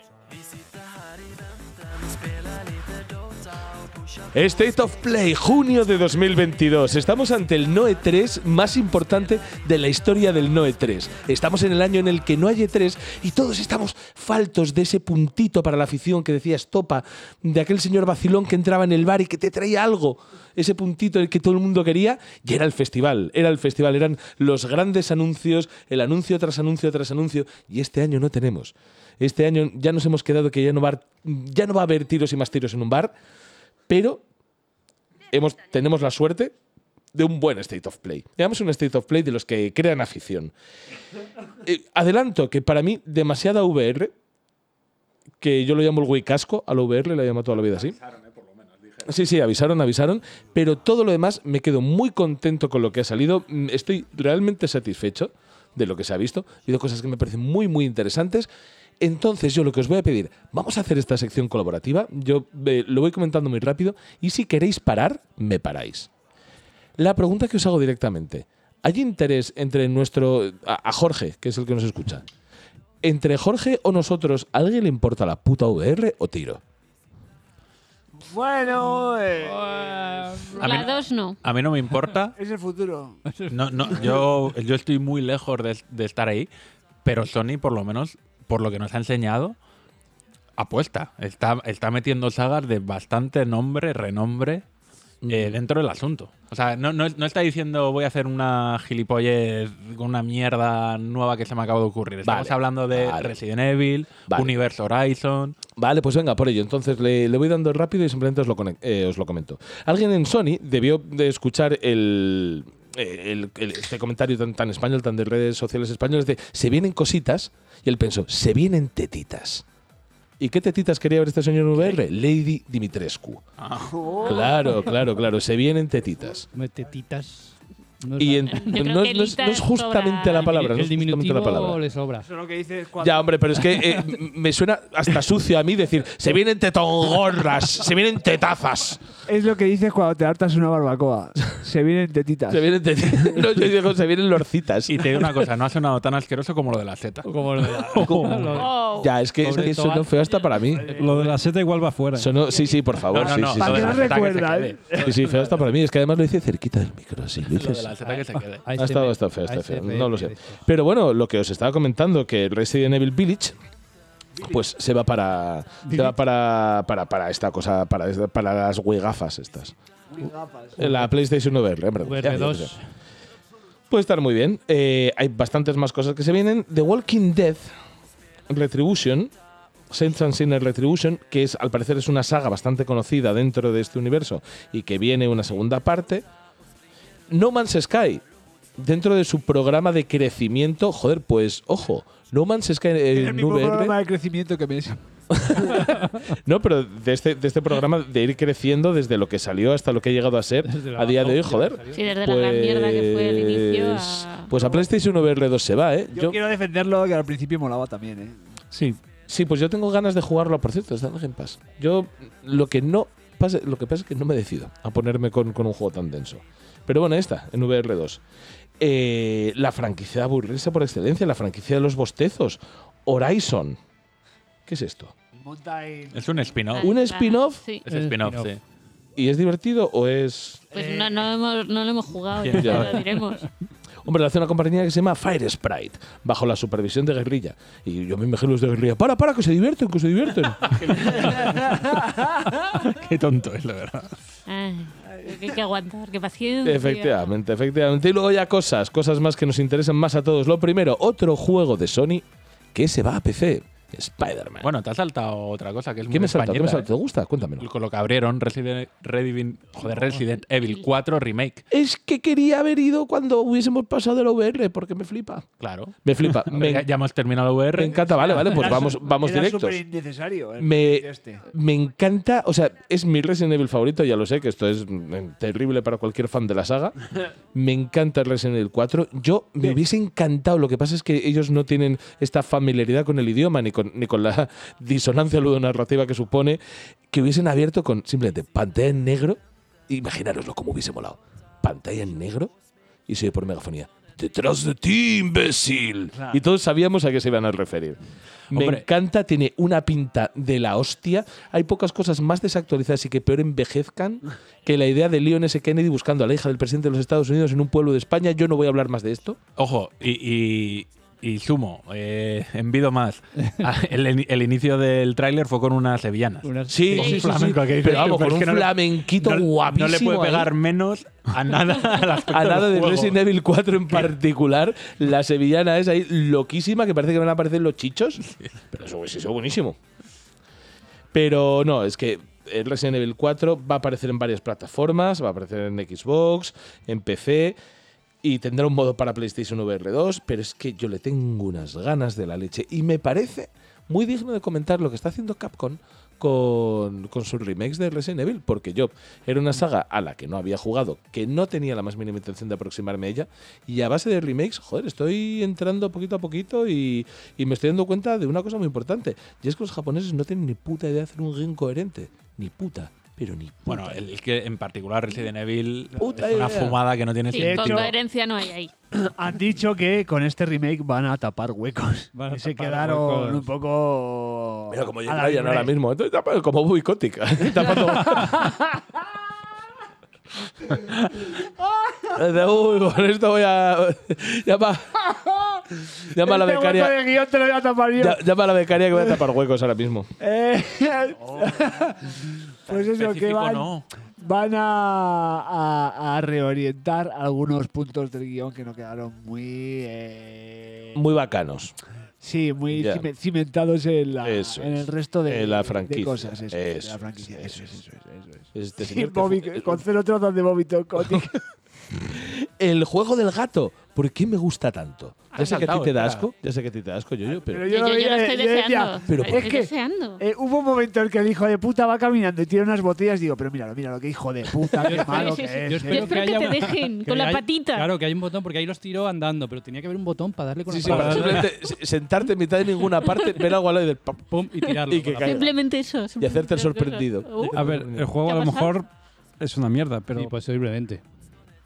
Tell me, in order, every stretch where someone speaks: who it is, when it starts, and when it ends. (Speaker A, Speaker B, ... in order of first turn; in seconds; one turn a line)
Speaker A: 0.3-4.8
Speaker B: 4.3-33.1
Speaker B: 33.9-34.2
Speaker B: 35.3-36.5
Speaker B: 37.1-40.5
Speaker B: 41.6-44.1
Speaker B: 45.4-48.0
Speaker C: 47.6-49.1
Speaker B: 49.0-58.5
Speaker B: 59.0-66.1
Speaker B: 67.0-72.2
Speaker B: 73.0-76.6
Speaker D: 78.2-80.8
Speaker E: 79.4-80.7
Speaker F: 80.6-81.4
Speaker C: 80.6-80.9
Speaker C: 81.4-82.3
Speaker D: 82.4-83.2
Speaker E: 83.3-84.3
Speaker C: 83.5-86.5
Speaker C: 87.0-89.6
Speaker C: 90.6-94.6
Speaker B: 95.2-95.6
Speaker C: 95.3-105.6
Speaker B: 102.2-103.4
Speaker B: 104.2-104.5
Speaker B: 105.8-119.6
Speaker B: 120.4-123.4
Speaker C: 123.6-123.9
Speaker D: 123.9-124.8
Speaker B: 124.2-126.5
Speaker E: 126.5-129.0
Speaker B: 128.2-131.8
Speaker F: 128.5-130.6
Speaker E: 130.4-132.3
Speaker D: 132.2-133.4
Speaker B: 133.0-139.0
Speaker D: 139.2-143.5
Speaker B: 142.5-145.3
Speaker C: 144.9-148.5
Speaker E: 147.2-150.2
Speaker B: 148.1-150.9
Speaker F: 148.5-149.1
Speaker G: 150.8-152.3
Speaker E: 151.0-151.3
Speaker B: 152.2-154.3
Speaker C: 153.1-155.1
Speaker D: 153.3-155.2
Speaker B: 155.0-157.9
Speaker C: 157.5-158.7
Speaker E: 158.0-160.6
Speaker B: 158.8-163.5
Speaker B: 164.4-169.7
Speaker E: 165.8-166.1
Speaker D: 170.1-171.1
Speaker B: 170.8-172.7
Speaker E: 172.0-172.8
Speaker B: 173.9-177.7
Speaker B: 178.5-179.3
Speaker B: 179.9-186.2
Speaker B: 187.3-188.2
Speaker B: 188.8-193.9
Speaker D: 193.1-195.0
Speaker B: 195.3-206.4
Speaker E: 200.6-202.1
Speaker F: 201.9-204.5
Speaker D: 204.5-204.9
Speaker D: 206.1-208.4
Speaker B: 208.7-218.2
Speaker B: 218.8-223.8
Speaker B: 224.7-225.1
Speaker D: 225.3-226.4
Speaker C: 226.1-226.9
Speaker F: 226.7-227.8
Speaker B: 226.8-227.7
Speaker C: 227.8-228.6
Speaker E: 227.9-228.6
Speaker B: 229.2-230.6
Speaker D: 230.7-231.3
Speaker F: 230.7-233.4
Speaker C: 232.4-233.1
Speaker B: 232.6-232.9
Speaker B: 234.0-241.2
Speaker C: 240.6-242.0
Speaker D: 241.2-242.1
Speaker C: 242.5-244.1
Speaker F: 244.5-247.2
Speaker B: 246.6-254.7
Speaker C: 254.6-256.9
Speaker B: 256.1-257.6
Speaker C: 257.6-261.6
Speaker E: 259.9-260.2
Speaker B: 261.7-266.9
Speaker C: 265.6-268.8
Speaker B: 267.7-269.8
Speaker D: 268.3-271.4
Speaker B: 270.6-276.9
Speaker B: 277.5-292.5
Speaker B: 293.1-298.0
Speaker D: 296.1-296.4
Speaker C: 298.5-298.8
Speaker B: 298.5-309.4
Speaker C: 309.6-323.2
Speaker E: 313.4-313.6
Speaker E: 316.4-317.2
Speaker B: 316.7-320.5
Speaker F: 316.9-317.3
Speaker B: 322.3-328.2
Speaker C: 328.2-328.6
Speaker B: 328.7-329.8
Speaker B: 331.1-337.6
Speaker B: 338.2-364.1
Speaker C: 363.6-367.9
Speaker B: 365.9-366.8
Speaker D: 366.0-366.4
Speaker F: 367.3-368.7
Speaker D: 367.3-367.9
Speaker D: 368.9-375.7
Speaker E: 372.1-373.5
Speaker B: 374.7-378.5
Speaker D: 377.5-379.0
Speaker D: 381.6-382.0
Speaker B: 382.1-387.0
Speaker D: 386.2-388.2
Speaker B: 388.0-390.1
Speaker D: 390.2-401.0
Speaker C: 391.3-391.7
Speaker C: 392.7-393.8
Speaker B: 400.9-401.8
Speaker D: 402.2-411.3
Speaker B: 402.7-403.1
Speaker B: 404.2-407.7
Speaker B: 408.5-409.8
Speaker B: 412.0-417.7
Speaker C: 415.3-416.3
Speaker D: 417.3-426.2
Speaker F: 417.6-420.2
Speaker B: 419.1-419.6
Speaker E: 424.8-431.6
Speaker F: 425.0-427.9
Speaker B: 430.7-434.2
Speaker F: 433.0-433.6
Speaker E: 434.3-435.5
Speaker B: 434.9-435.5
Speaker F: 435.2-437.6
Speaker B: 436.2-438.1
Speaker G: 437.5-438.9
Speaker F: 438.2-438.7
Speaker G: 439.4-440.3
Speaker E: 440.1-441.0